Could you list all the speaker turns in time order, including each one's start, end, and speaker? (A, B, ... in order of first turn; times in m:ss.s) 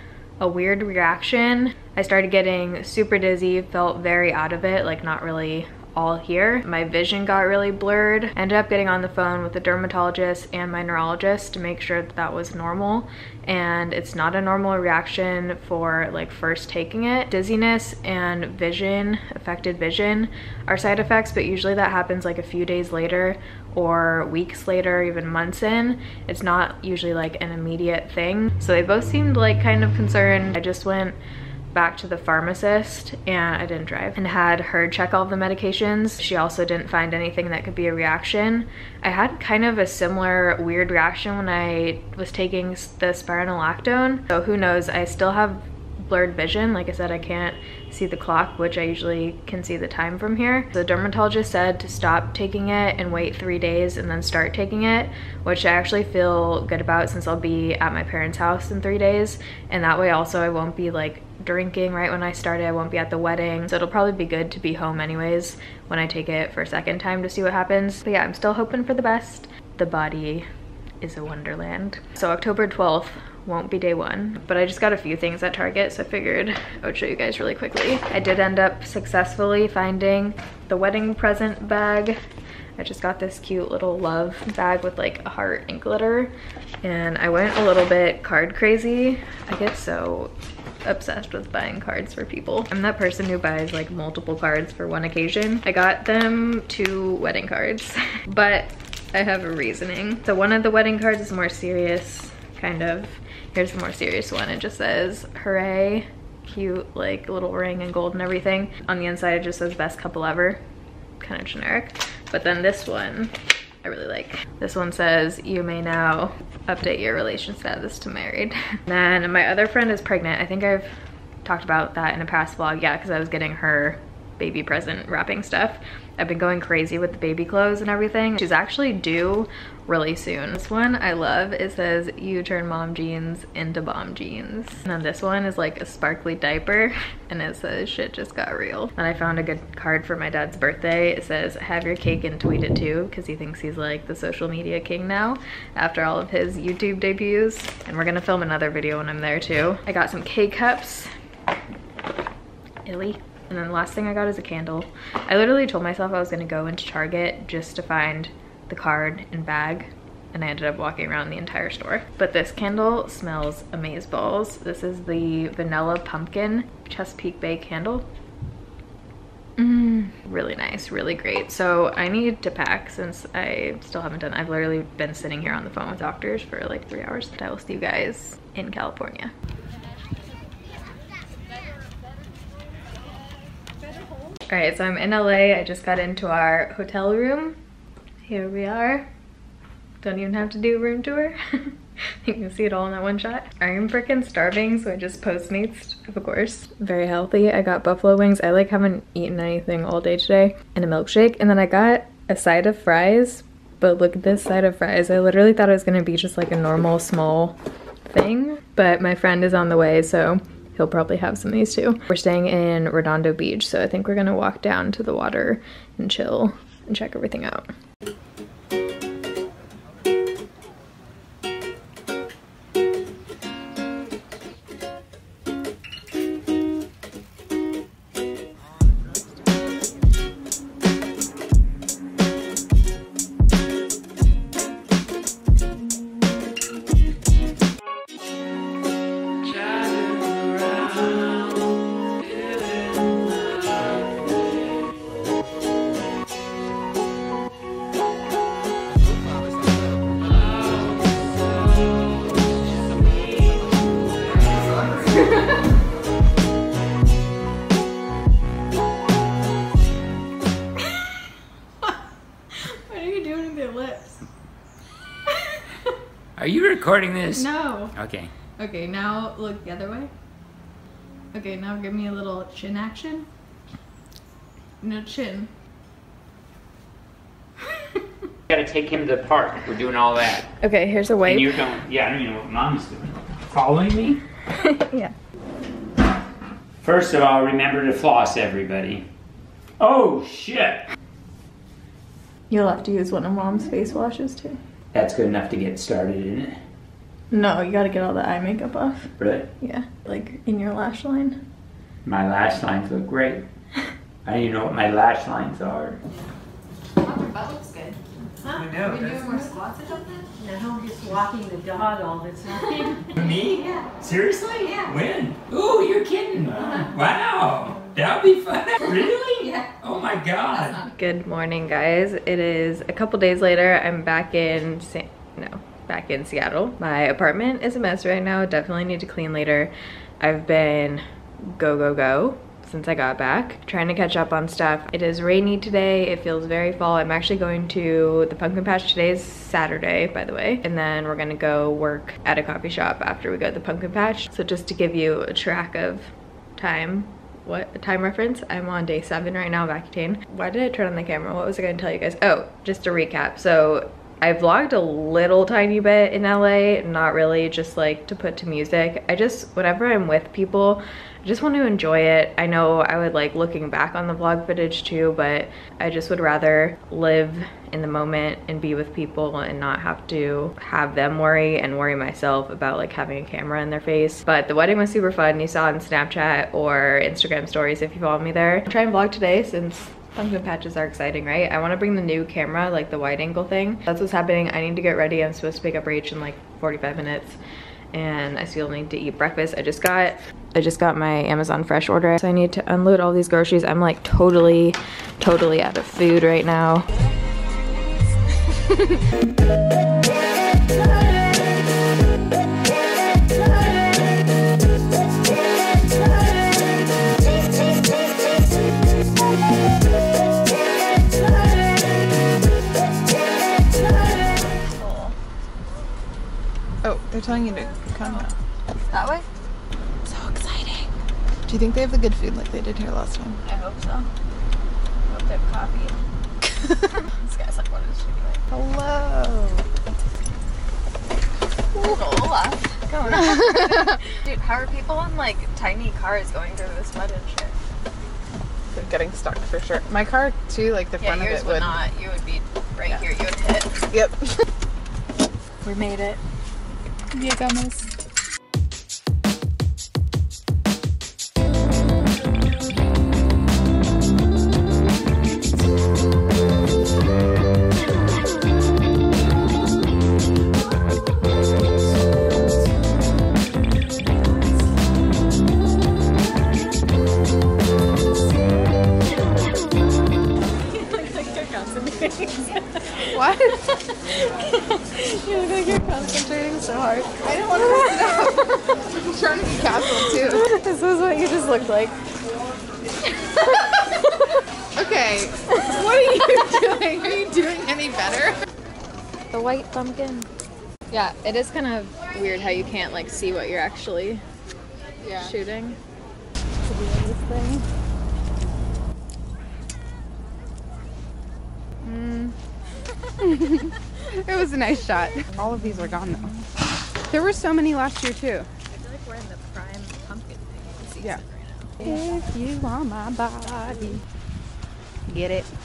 0:00.4-0:31.2 A
0:31.7-1:10.5 A
1:11.0-1:22.2 A
1:22.8-1:26.3 A
1:26.8-1:30.3 A
1:30.8-1:50.6 A
1:51.2-2:00.9 A
2:01.4-2:31.1 A
2:32.8-2:48.0 A
2:49.6-2:59.3 A
3:04.5-3:07.6 A
3:08.2-3:09.1 A
3:10.0-3:27.6 A
3:28.1-3:37.7 A
4:22.5-4:24.2 A
4:26.4-4:28.3 B
4:27.3-4:27.9 A
4:28.6-4:30.1 A
4:31.3-4:33.3 A
4:34.8-4:35.5 A
4:38.5-4:40.5 B
4:40.6-4:41.6 A
4:41.2-4:44.2 B
4:44.5-4:45.1 A
4:46.8-4:49.0 B
4:49.8-4:50.9 B
4:52.5-4:54.6 A
4:54.9-4:56.6 B
4:57.3-5:01.4 A
4:59.2-4:59.5 B
5:02.0-5:03.4 B
5:04.2-5:06.0 B
5:07.0-5:08.0 A
5:08.4-5:13.1 C
5:08.5-5:09.3 B
5:08.8-5:10.2 A
5:13.1-5:20.8 B
5:20.8-6:27.4 A
6:27.9-6:36.9 A
6:54.4-6:55.1 A
6:56.8-6:58.3 D
6:57.5-6:58.3 A
6:58.9-6:59.2 A
7:00.0-7:00.9 D
7:01.5-7:03.4 D
7:03.4-7:04.1 A
7:05.1-7:05.9 A
7:06.5-7:06.8 D
7:06.9-7:08.4 A
7:08.5-7:09.6 D
7:11.7-7:17.6 A
7:18.7-7:21.8 D
7:21.0-7:23.8 A
7:23.9-7:24.4 D
7:25.6-7:26.2 A
7:27.1-7:27.9 D
7:50.7-7:53.6 A
7:53.1-7:53.6 D
7:54.2-7:58.5 A
7:56.5-8:00.5 D
8:00.0-8:02.0 A
8:03.3-8:04.2 A
8:04.8-8:08.4 D
8:09.3-8:10.3 A
8:10.9-8:14.2 A
8:15.0-8:15.3 D
8:15.1-8:15.8 A
8:16.6-8:17.6 D
8:21.8-8:22.3 D
8:23.2-8:26.4 D
8:27.1-8:28.5 D
8:28.7-8:31.9 A
8:31.8-8:34.0 D
8:35.1-8:35.5 D